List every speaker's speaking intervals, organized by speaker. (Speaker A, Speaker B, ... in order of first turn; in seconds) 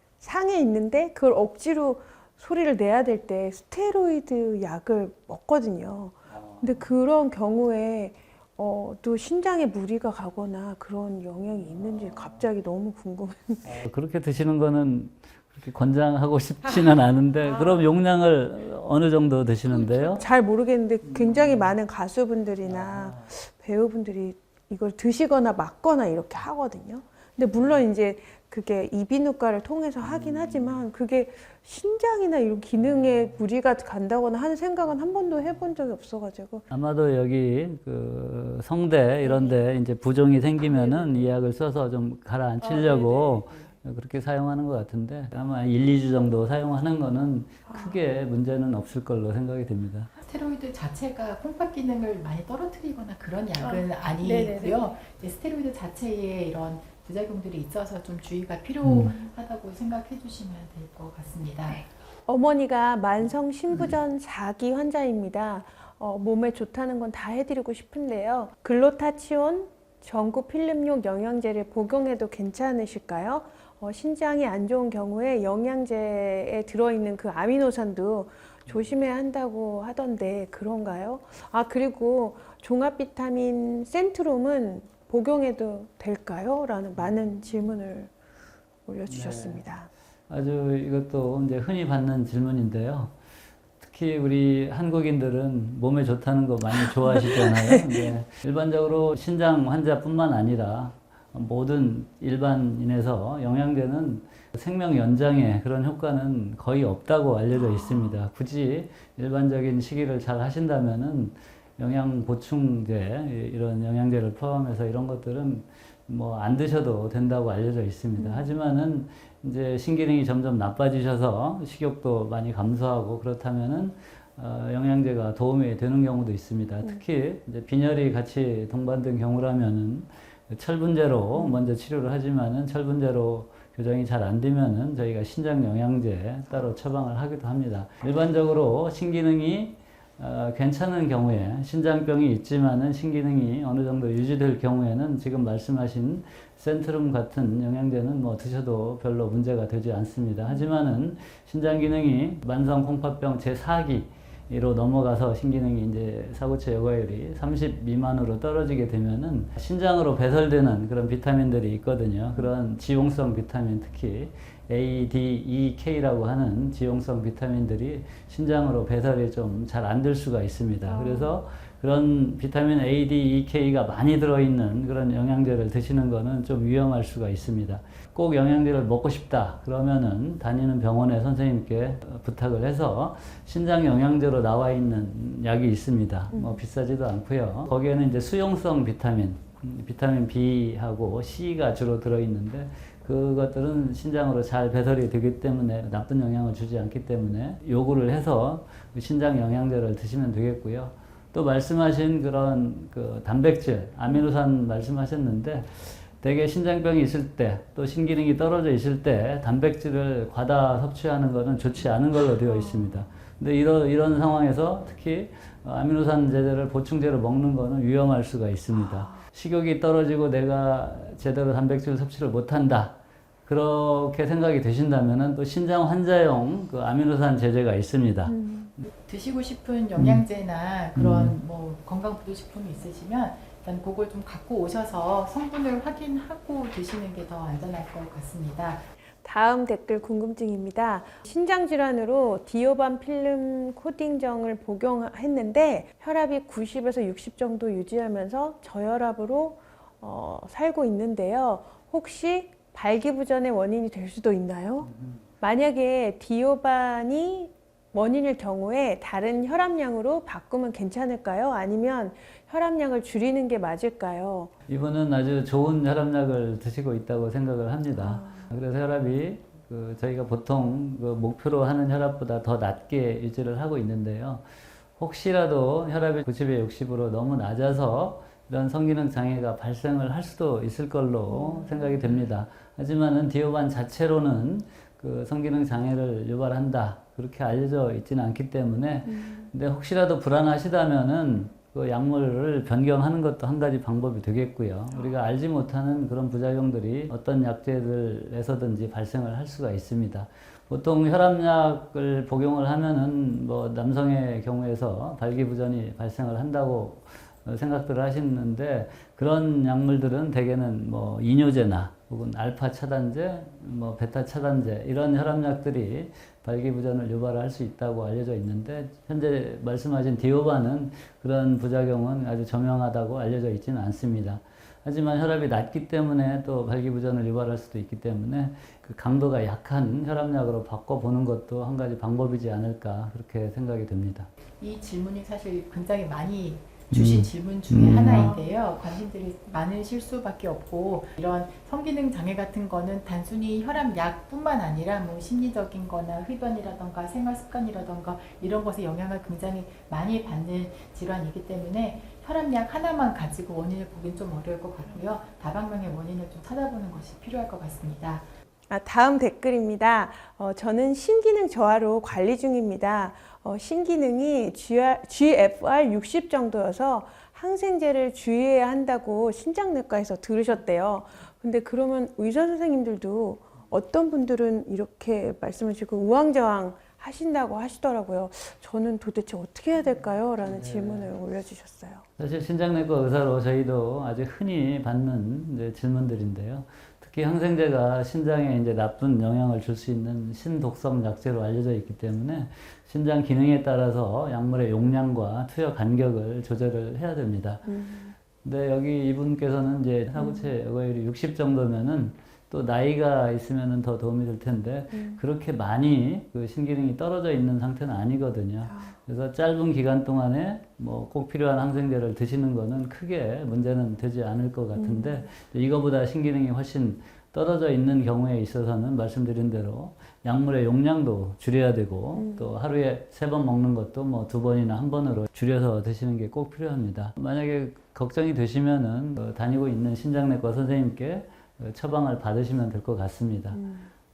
Speaker A: 0.2-13.8, 20.2-36.6, 39.2-39.6, 40.7-41.3, 53.6-54.8, 61.7-88.1, 88.8-89.9, 97.1-98.0, 107.5-108.1, 118.2-118.5, 131.3-131.7, 170.9-171.3, 186.3-186.6, 228.2-228.7, 239.2-264.5, 267.9-268.4, 281.3-281.9, 289.1-289.4, 358.7-382.1, 397.6-398.1, 400.1-400.5, 404.9-405.2, 408.6-408.9, 414.8-415.3, 422.1-422.5, 433.5-433.9
Speaker B: 13.8-20.2, 36.7-50.1, 58.8-59.1, 89.0-89.6, 90.3-93.1, 93.8-228.8, 230.0-230.2, 230.9-231.3, 264.7-274.4, 275.0-334.3, 336.9-338.3, 380.4-381.1, 382.2-397.7, 398.4-433.6
Speaker C: 50.2-61.8, 229.1-238.8, 334.6-358.2